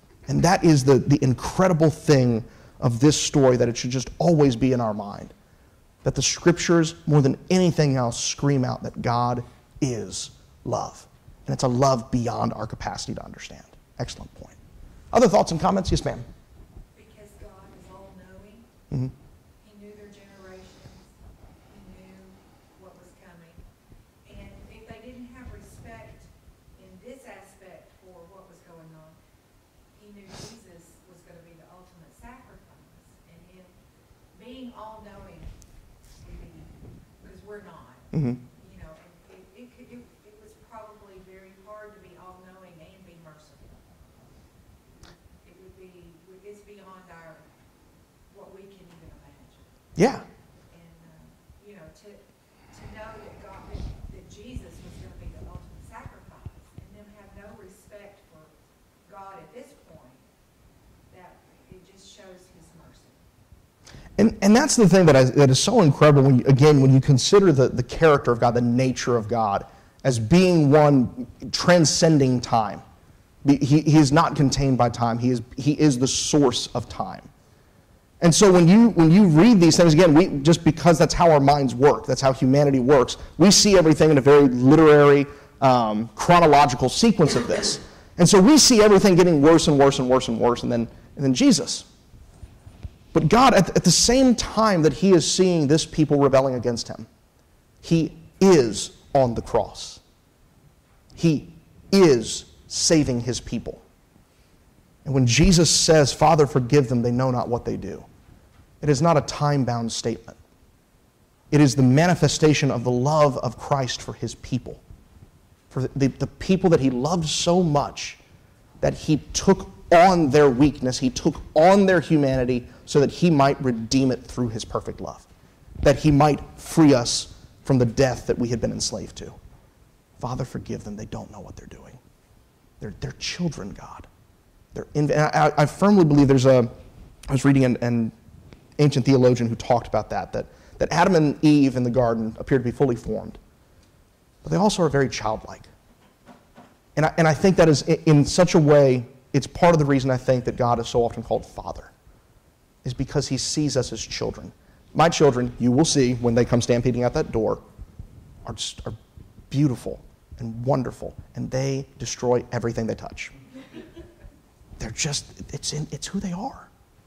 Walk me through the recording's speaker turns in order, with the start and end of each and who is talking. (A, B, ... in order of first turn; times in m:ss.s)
0:00.3-0:05.3 A
0:06.0-0:14.6 A
0:15.1-0:16.3 A
0:16.9-0:18.7 B
0:19.6-0:21.1 B
0:21.7-0:23.6 B
0:24.2-0:29.2 B
0:29.9-0:33.7 B
0:34.3-0:35.5 B
0:36.2-0:43.8 B
0:38.1-0:38.4 A
0:45.4-0:47.5 B
0:48.3-0:58.5 B
0:50.0-0:50.2 A
0:59.0-1:00.3 B
1:01.1-1:03.2 B
1:04.2-1:12.8 A
1:13.4-1:17.3 A
1:18.2-1:31.9 A
1:33.1-1:37.1 A
1:37.8-1:40.0 A
1:41.1-1:43.8 A
1:45.0-1:48.1 A
1:48.8-1:50.4 A
1:51.5-1:54.8 A
1:55.7-1:58.2 A
1:58.8-2:05.3 A
2:05.8-2:09.4 A
2:10.2-2:12.0 A
2:12.8-2:14.1 A
2:14.7-2:16.7 A
2:17.3-2:18.1 A
2:18.8-2:23.4 A
2:24.4-2:25.7 A
2:27.0-2:31.9 A
2:32.8-2:37.6 A
2:38.4-2:39.0 A
2:39.5-2:43.3 A
2:44.8-2:46.7 A